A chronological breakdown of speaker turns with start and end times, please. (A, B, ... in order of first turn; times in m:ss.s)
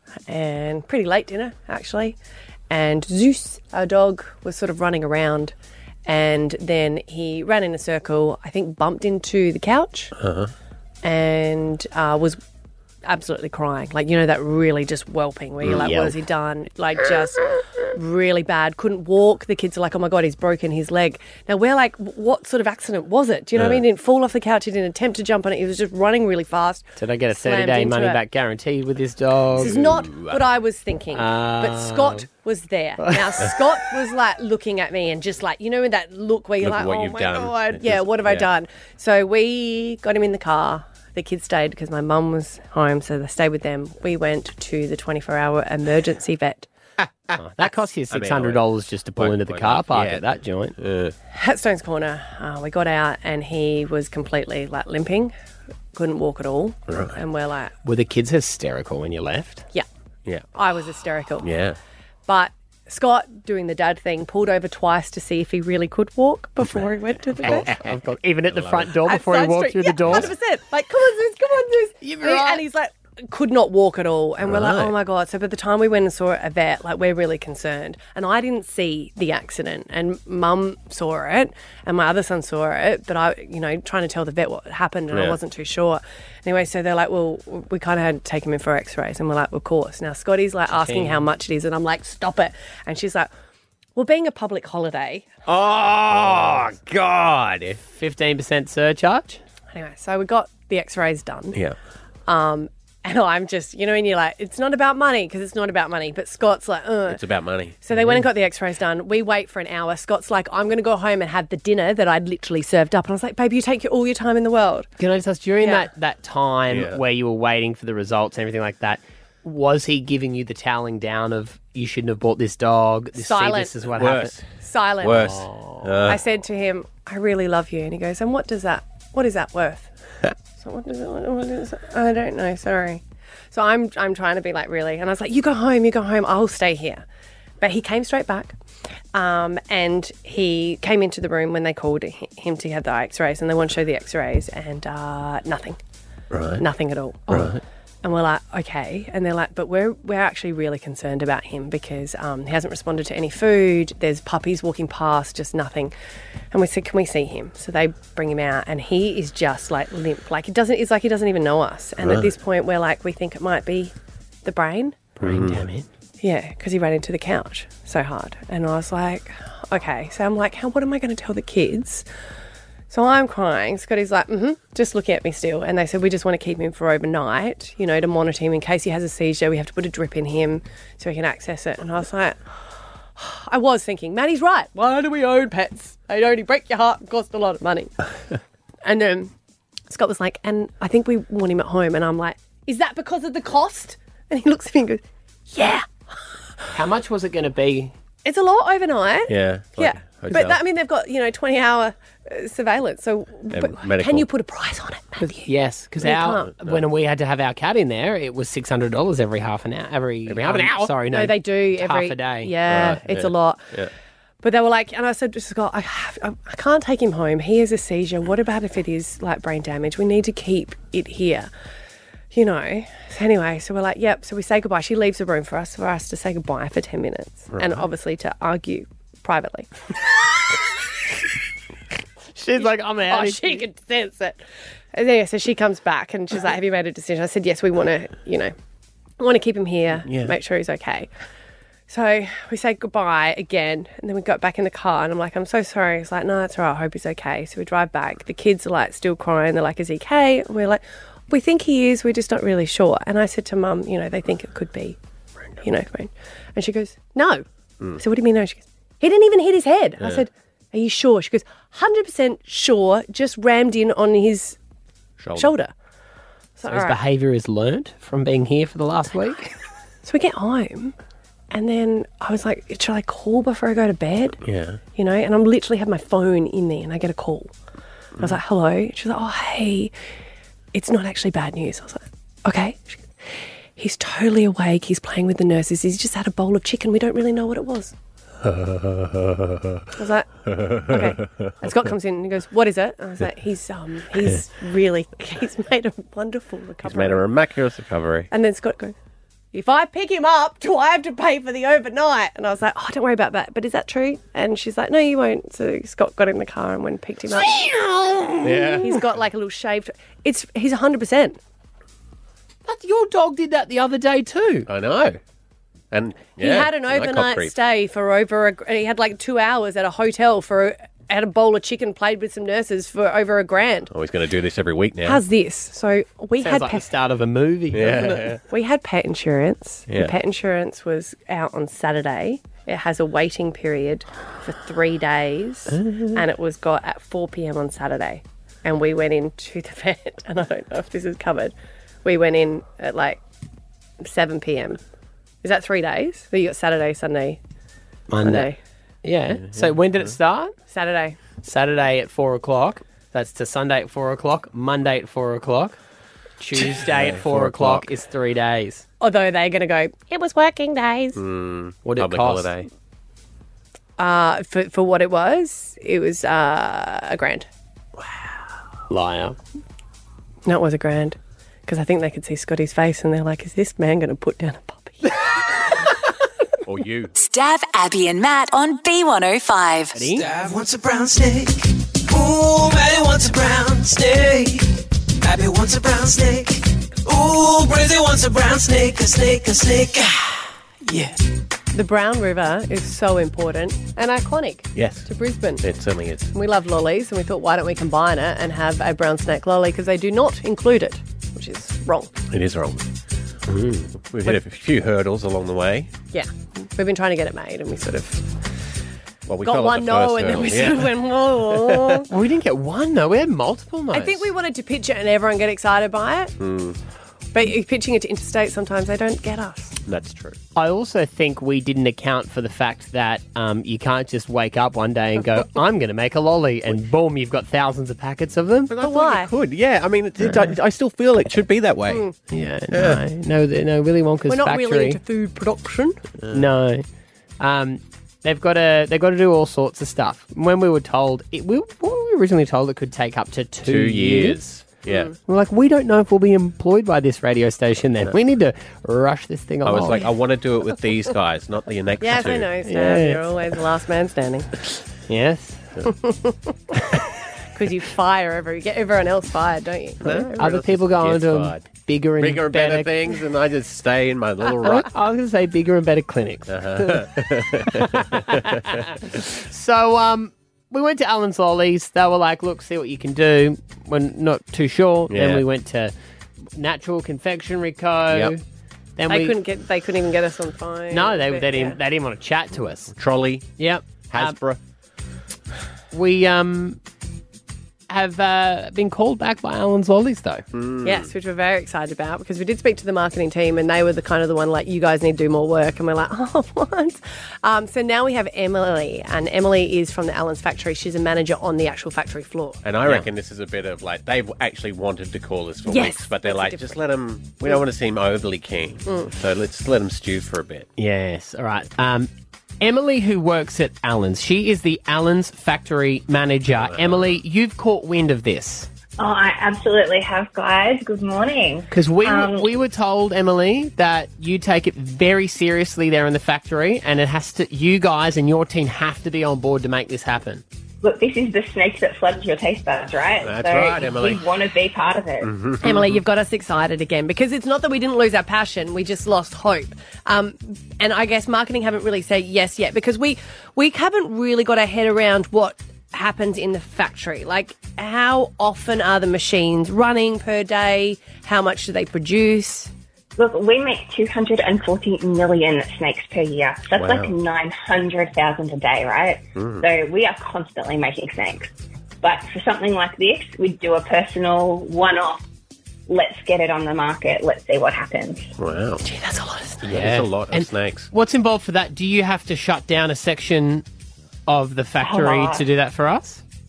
0:00.3-0:02.2 A
0:02.7-0:05.5 A
0:06.0-0:10.1 A
0:10.2-0:10.5 B
0:11.0-0:12.4 A
0:13.0-0:28.2 A
0:15.6-0:15.9 B
0:15.7-0:16.2 C
0:23.6-0:23.8 B
0:27.0-0:29.7 C
0:29.6-0:30.4 B
0:29.6-0:46.7 A
0:31.1-0:32.2 C
0:33.0-0:33.6 C
0:36.6-0:38.5 B
0:47.0-0:47.4 B
0:47.4-0:50.8 C
0:48.1-0:51.1 B
0:51.3-0:55.3 A
0:55.9-0:57.7 A
0:56.9-0:57.2 B
0:57.8-0:59.7 C
1:00.5-1:01.5 A
1:01.4-1:01.8 B
1:02.3-1:07.8 A
1:07.4-1:10.3 C
1:08.5-1:09.0 B
1:09.0-1:33.3 A
1:12.0-1:12.6 C
1:14.4-1:15.0 B
1:25.1-1:25.4 B
1:30.7-1:31.2 C
1:34.0-1:35.3 A
1:35.5-1:37.8 B
1:35.5-1:36.7 C
1:37.9-1:39.4 C
1:39.7-1:41.6 A
1:42.3-1:47.2 A
1:47.1-1:47.8 B
1:47.8-1:54.9 A
1:55.0-2:04.4 C
1:55.6-1:55.9 A
1:56.7-1:57.0 B
2:03.2-2:03.7 A
2:03.9-2:04.5 B
2:04.6-2:05.4 A
2:05.0-2:06.2 B
2:05.1-2:05.9 C
2:06.0-2:09.9 A
2:10.6-2:17.0 A
2:17.6-2:18.5 A
2:19.1-2:25.8 A
2:26.3-2:26.7 B
2:26.6-2:35.9 A
2:27.3-2:27.6 B
2:36.5-2:45.2 A
2:42.0-2:42.3 B
2:45.2-2:45.6 B
2:45.2-2:45.9 C
2:46.2-2:52.0 A
2:52.9-3:02.4 A
3:03.2-3:07.9 A
3:08.8-3:09.3 A
3:09.9-3:16.0 A
3:16.7-3:17.9 C
3:18.2-3:26.5 A
3:19.3-3:20.6 B
3:23.5-3:24.3 B
3:25.4-3:32.5 C
3:26.4-3:26.8 B
3:30.3-3:30.9 B
3:31.1-3:33.7 A
3:32.6-3:33.9 B
3:34.4-3:41.5 A
3:42.3-3:49.7 A
3:47.5-3:47.9 B
3:52.4-3:53.6 C
3:52.6-3:54.4 A
3:54.9-3:58.5 A
3:59.2-4:01.1 A
4:00.0-4:00.4 B
4:01.9-4:15.0 A
4:15.6-4:17.4 A
4:18.0-4:24.6 A
4:20.0-4:20.2 B
4:25.2-4:25.5 B
4:25.4-4:25.7 A
4:26.6-4:27.0 A
4:26.7-4:29.5 C
4:30.0-4:30.9 A
4:31.5-4:34.4 A
4:34.4-4:34.8 B
4:34.9-4:37.5 A
4:38.2-4:39.9 A
4:40.7-4:47.9 A
4:48.4-4:49.9 B
4:50.0-4:50.3 A
4:50.4-4:51.9 B
4:50.9-4:57.2 A
4:56.8-4:58.3 B
4:58.3-4:58.9 A
4:59.5-5:07.6 A
5:07.4-5:08.8 C
5:08.4-5:09.0 B
5:08.8-5:11.4 A
5:12.6-5:14.7 C
5:14.7-5:15.2 B
5:15.9-5:17.5 B
5:16.4-5:23.9 A
5:23.9-5:25.2 B
5:25.0-5:26.8 A
5:26.4-5:28.3 C
5:27.7-5:28.4 B
5:28.5-5:43.2 A
5:29.9-5:30.2 B
5:35.7-5:36.2 B
5:44.0-5:44.8 A
5:45.4-5:47.4 A
5:48.1-5:48.5 C
5:48.2-5:48.6 A
5:49.0-5:50.5 C
5:49.4-5:50.1 B
5:50.7-5:51.2 A
5:51.4-5:55.8 C
5:56.4-5:58.8 C
5:56.6-5:57.9 B
5:59.0-6:01.2 A
6:01.1-6:02.7 B
6:01.8-6:02.5 C
6:04.0-6:07.5 A
6:08.9-6:09.4 C
6:10.4-6:15.3 A
6:16.6-6:17.1 B
6:17.2-6:20.0 D
6:19.9-6:20.2 C
6:20.1-6:31.2 E
6:31.7-6:35.6 A
6:34.7-6:35.1 B
6:35.6-6:36.3 B
6:36.3-6:42.1 A
6:42.3-6:42.9 B
6:43.5-6:43.8 C
6:43.7-6:45.9 B
6:46.1-6:48.4 A
6:49.2-6:52.0 B
6:49.4-6:52.1 A
6:52.1-6:54.3 C
6:53.9-6:56.4 A
6:56.4-6:56.8 B
6:57.3-6:59.8 A
6:59.8-7:00.4 B
7:00.6-7:08.7 C
7:08.7-7:12.0 B
7:08.8-7:09.3 A
7:11.9-7:12.1 A
7:12.3-7:15.0 C
7:12.7-7:13.0 B
7:14.3-7:16.0 A
7:16.2-7:16.4 B
7:16.3-7:16.8 C
7:17.4-7:24.4 C
7:23.6-7:25.1 B
7:24.9-7:25.1 A
7:25.2-7:30.1 C
7:29.6-7:32.5 B
7:32.0-7:34.5 A
7:32.6-7:33.3 C
7:35.1-7:35.7 C
7:35.9-7:36.5 A
7:37.5-7:40.3 A
7:40.0-7:44.9 B
7:40.4-7:42.9 C
7:44.6-7:55.9 C
7:46.5-7:49.0 B
7:55.1-7:55.4 B
7:56.5-7:58.4 C
7:58.1-7:58.4 B
7:59.0-7:59.4 C
7:59.1-8:01.8 A
8:00.9-8:02.9 C
8:02.9-8:03.5 B
8:03.6-8:04.4 C
8:04.1-8:04.6 B
8:05.9-8:06.8 C
8:07.9-8:10.4 C
8:10.5-8:11.1 B
8:10.8-8:22.6 A
8:22.6-8:30.7 B
8:25.7-8:26.8 A
8:30.8-8:32.1 C
8:32.6-8:38.7 C
8:36.5-8:37.2 B
8:39.0-8:42.5 F
8:41.7-8:50.4 C
8:50.8-8:55.3 F
8:53.2-8:54.2 B
8:55.2-8:56.0 B
8:55.6-9:12.7 A
9:13.2-9:25.2 F
9:16.7-9:17.1 B
9:19.3-9:19.6 B
9:25.9-9:28.3 F
9:28.4-9:28.8 B
9:28.8-9:29.6 A
9:29.6-9:33.6 C
9:29.6-9:30.9 B
9:34.3-9:36.2 C
9:34.8-9:35.4 F